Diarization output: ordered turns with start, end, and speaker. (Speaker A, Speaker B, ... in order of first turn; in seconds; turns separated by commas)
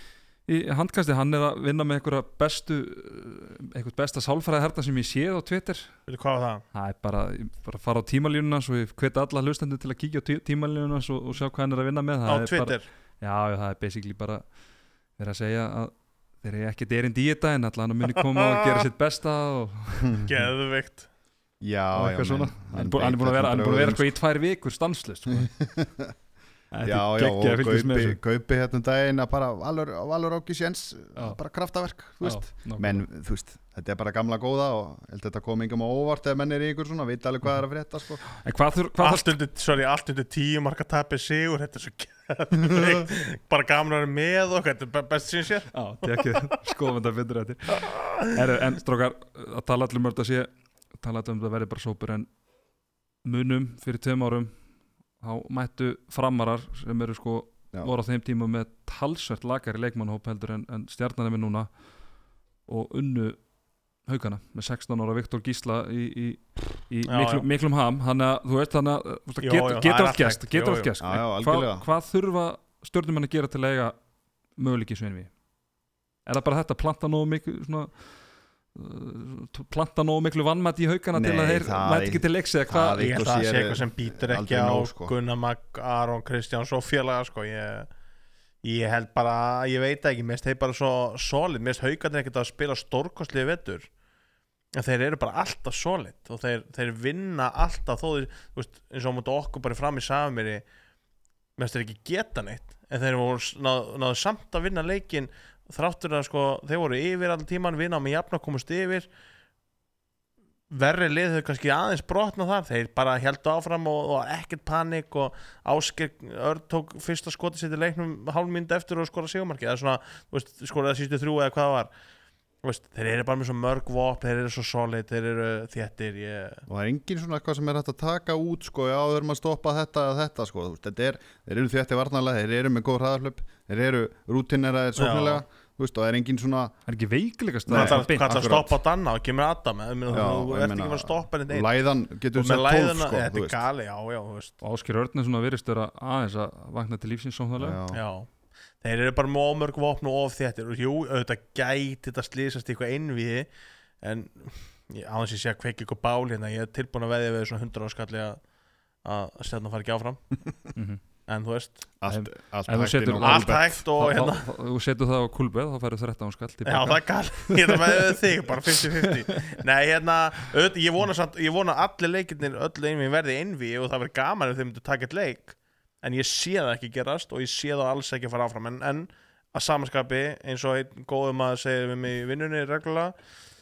Speaker A: 0.5-5.9, Speaker B: 6.1-6.6, Speaker A: 6.7-14.4, Speaker B: 12.2-12.8, Speaker A: 15.2-20.2, Speaker B: 18.1-18.9, Speaker C: 20.0-20.3, Speaker B: 20.2-21.1, Speaker C: 21.6-24.1, Speaker A: 21.9-25.5, Speaker C: 25.3-26.1, Speaker A: 26.7-28.2, Speaker C: 26.8-38.2, Speaker A: 32.2-33.0, Speaker A: 38.3-39.3, Speaker B: 39.0-46.5, Speaker A: 45.7-52.3, Speaker B: 47.8-48.3, Speaker A: 53.2-54.5, Speaker A: 55.2-61.7, Speaker A: 62.7-63.4, Speaker A: 64.0-74.0, Speaker B: 67.1-67.4, Speaker B: 69.4-70.9, Speaker C: 71.0-71.8, Speaker A: 74.6-75.3, Speaker A: 76.2-77.9, Speaker A: 78.7-83.1, Speaker C: 81.1-85.1, Speaker B: 83.0-87.9, Speaker B: 88.6-93.9, Speaker B: 94.7-100.6, Speaker B: 101.6-109.1, Speaker B: 110.7-121.9, Speaker B: 122.6-126.6, Speaker C: 126.7-136.7, Speaker B: 134.9-135.4, Speaker A: 136.9-138.5, Speaker C: 137.7-138.7, Speaker B: 137.7-141.7, Speaker C: 140.1-143.6, Speaker B: 142.3-144.5, Speaker A: 144.6-147.8, Speaker C: 147.6-148.0, Speaker B: 147.9-148.3, Speaker B: 148.8-153.5, Speaker B: 154.0-158.4, Speaker B: 159.0-160.2, Speaker A: 160.7-161.0, Speaker B: 161.3-161.8, Speaker C: 162.0-163.7, Speaker A: 162.1-168.2, Speaker B: 163.2-164.4, Speaker B: 166.7-183.1, Speaker A: 168.8-169.5